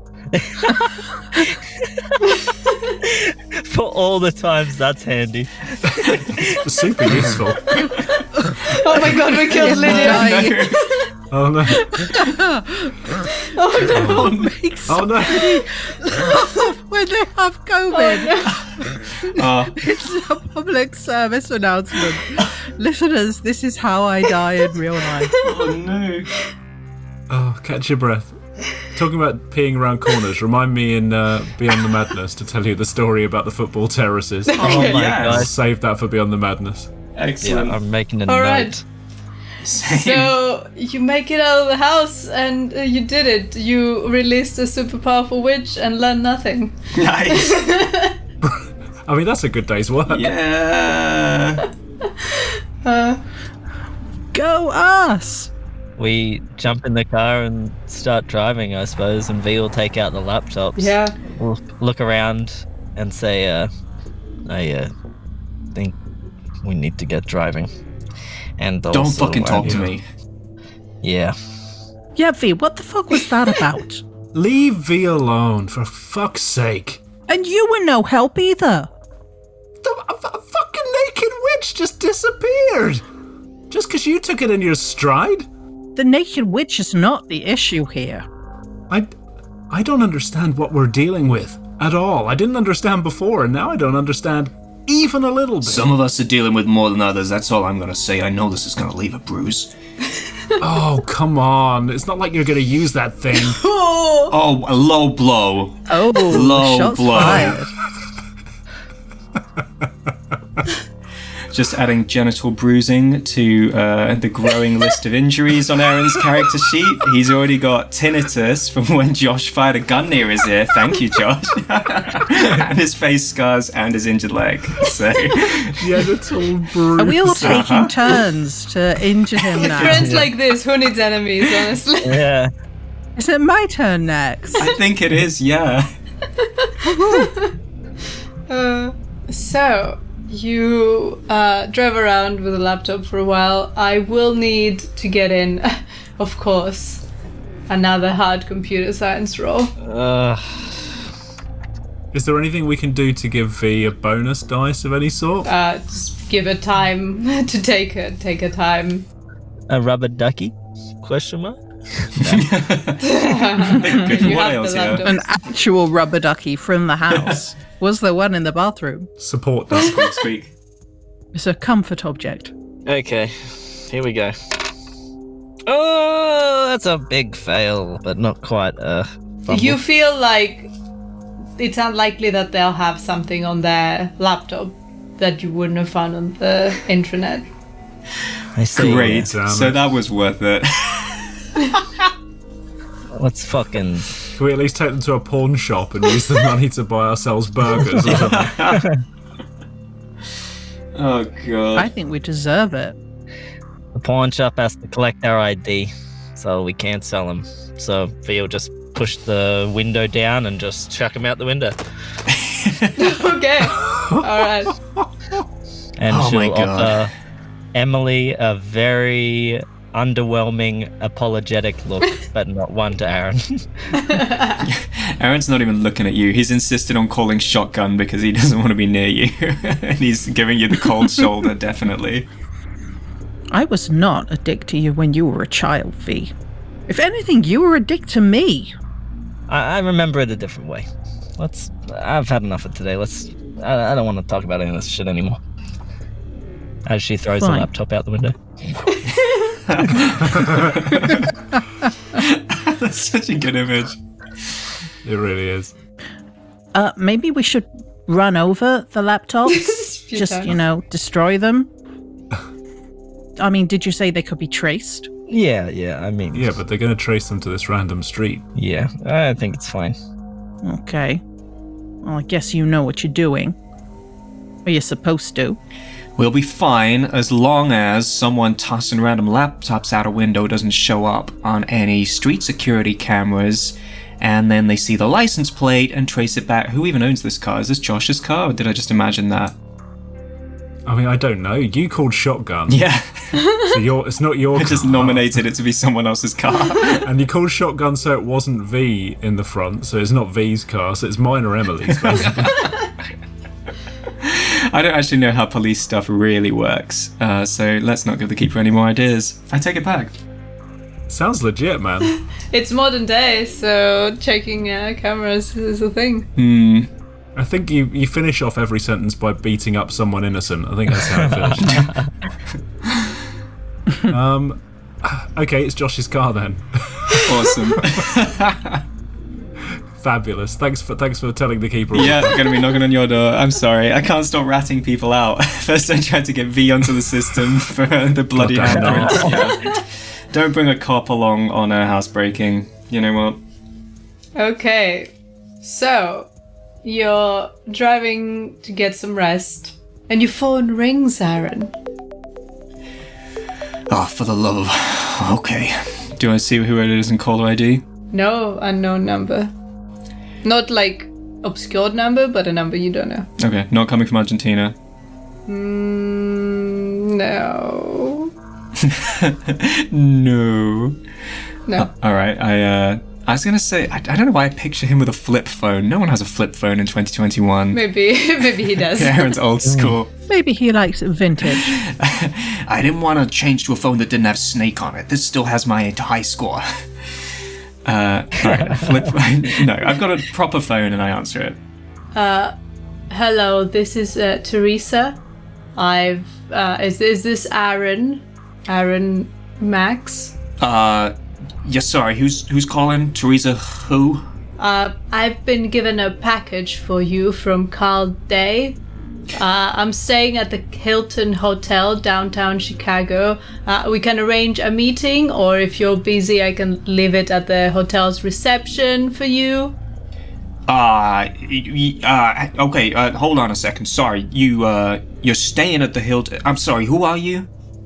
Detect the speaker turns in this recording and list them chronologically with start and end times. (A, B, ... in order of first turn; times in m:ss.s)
0:00.3-0:02.3 A
0:02.4-0:02.9 B
0:03.0-0:06.6 A
0:06.0-0:07.9 C
0:08.5-0:11.1 B
0:09.5-0:10.7 D
0:09.6-0:10.8 E
0:11.3-0:12.0 C
0:11.7-0:12.3 B
0:12.2-0:13.0 D
0:13.2-0:14.4 B
0:13.9-0:15.5 C
0:14.0-0:14.6 E
0:14.3-0:18.4 D
0:17.9-0:18.6 B
0:19.3-0:19.9 E
0:19.8-0:25.3 D
0:25.3-0:25.6 B
0:25.4-0:26.3 E
0:27.3-0:36.9 C
0:34.4-0:35.1 B
0:34.6-0:35.5 A
0:34.7-0:35.5 E
0:37.2-0:37.8 E
0:37.4-0:38.8 A
0:38.3-0:38.8 B
0:39.6-0:40.3 E
0:39.9-0:46.8 B
0:46.9-0:47.6 E
0:47.3-0:48.2 B
0:48.4-0:50.3 C
0:50.1-0:51.6 E
0:52.2-0:53.2 B
0:54.3-0:55.5 D
0:56.0-1:03.7 A
1:00.8-1:01.2 B
1:04.4-1:04.9 A
1:06.6-1:07.7 A
1:08.6-1:09.8 A
1:08.9-1:10.0 E
1:09.6-1:09.9 C
1:11.0-1:11.4 A
1:12.2-1:14.0 D
1:14.3-1:17.0 C
1:17.3-1:18.9 D
1:19.8-1:23.0 C
1:23.7-1:25.5 C
1:26.0-1:28.2 D
1:29.7-1:35.9 C
1:35.6-1:39.7 E
1:40.6-1:43.6 C
1:43.3-1:44.3 B
1:44.3-1:47.6 E
1:45.9-1:47.7 D
1:47.1-1:47.6 C
1:51.5-2:05.9 E
2:05.8-2:07.8 C
2:07.0-2:10.2 D
2:07.3-2:08.1 E
2:09.5-2:09.9 E
2:09.6-2:12.2 B
2:09.8-2:10.3 A
2:12.0-2:12.5 A
2:13.2-2:14.7 D
2:14.6-2:15.9 E
2:16.4-2:17.5 B
2:16.8-2:17.3 D
2:18.5-2:27.0 B
2:27.7-2:29.7 B
2:29.8-2:30.8 A
2:32.1-2:35.5 C
2:35.4-2:39.1 B
2:39.7-2:42.4 A
2:42.2-2:45.0 E
2:43.0-2:45.2 B
2:45.0-2:49.1 D
2:47.1-2:47.4 E
2:49.2-2:50.2 C
2:49.8-2:50.5 E
2:51.3-2:52.5 D
2:52.9-2:54.5 A
2:55.6-2:59.8 A
2:59.5-3:00.7 B
3:01.6-3:07.5 B
3:08.5-3:09.3 A
3:08.7-3:11.7 E
3:08.9-3:09.8 C
3:13.1-3:14.2 A
3:14.4-3:18.6 C
3:18.1-3:19.0 A
3:18.1-3:18.8 E
3:20.9-3:21.9 E
3:21.8-3:23.0 D
3:24.0-3:31.8 A
3:32.3-3:32.9 E
3:33.0-3:34.7 B
3:33.9-3:34.3 C
3:36.0-3:37.1 A
3:36.1-3:37.0 E
3:37.7-3:44.0 A
3:44.0-3:44.6 B
3:44.6-3:52.3 E
3:53.5-3:56.3 D
3:56.9-3:58.7 D
3:59.5-4:00.9 A
4:01.4-4:05.4 A
4:06.9-4:08.8 A
4:07.3-4:07.7 D
4:08.9-4:09.6 B
4:09.7-4:11.3 E
4:10.2-4:10.8 C
4:12.1-4:14.0 E
4:15.0-4:15.7 C
4:16.7-4:21.7 D
4:19.5-4:20.5 B
4:23.4-4:25.1 D
4:25.3-4:26.5 A
4:26.3-4:28.4 C
4:28.5-4:30.0 A
4:30.6-4:31.2 D
4:32.0-4:33.6 D
4:34.6-4:35.6 D
4:36.2-4:49.5 E
4:50.9-4:52.8 C
4:52.7-4:53.4 E
4:53.5-4:55.4 C
4:54.6-4:57.1 E
4:57.0-5:02.9 C
5:02.0-5:02.5 E
5:04.2-5:10.1 E
5:11.1-5:12.1 C
5:12.5-5:16.3 B
5:16.4-5:16.9 E
5:17.4-5:21.9 C
5:21.4-5:21.7 A
5:24.1-5:28.0 C
5:27.2-5:28.8 E
5:30.0-5:32.4 C
5:31.9-5:43.4 E
5:38.3-5:39.5 C
5:38.6-5:39.5 A
5:44.4-5:45.1 B
5:45.6-5:46.3 B
5:46.8-5:51.7 B
5:53.9-5:57.8 E
5:58.1-5:59.5 B
6:00.4-6:03.3 B
6:03.4-6:04.8 E
6:05.5-6:08.3 B
6:08.8-6:11.0 E
6:11.8-6:17.8 E
6:17.7-6:19.3 B
6:18.7-6:20.1 E
6:19.6-6:20.0 A
6:20.3-6:21.8 D
6:21.5-6:26.7 E
6:27.8-6:31.6 E
6:28.4-6:29.1 A
6:32.1-6:32.5 B
6:33.1-6:35.2 B
6:35.8-6:40.3 B
6:40.6-6:44.2 E
6:44.6-6:48.8 B
6:49.3-6:59.8 B
7:00.7-7:07.5 E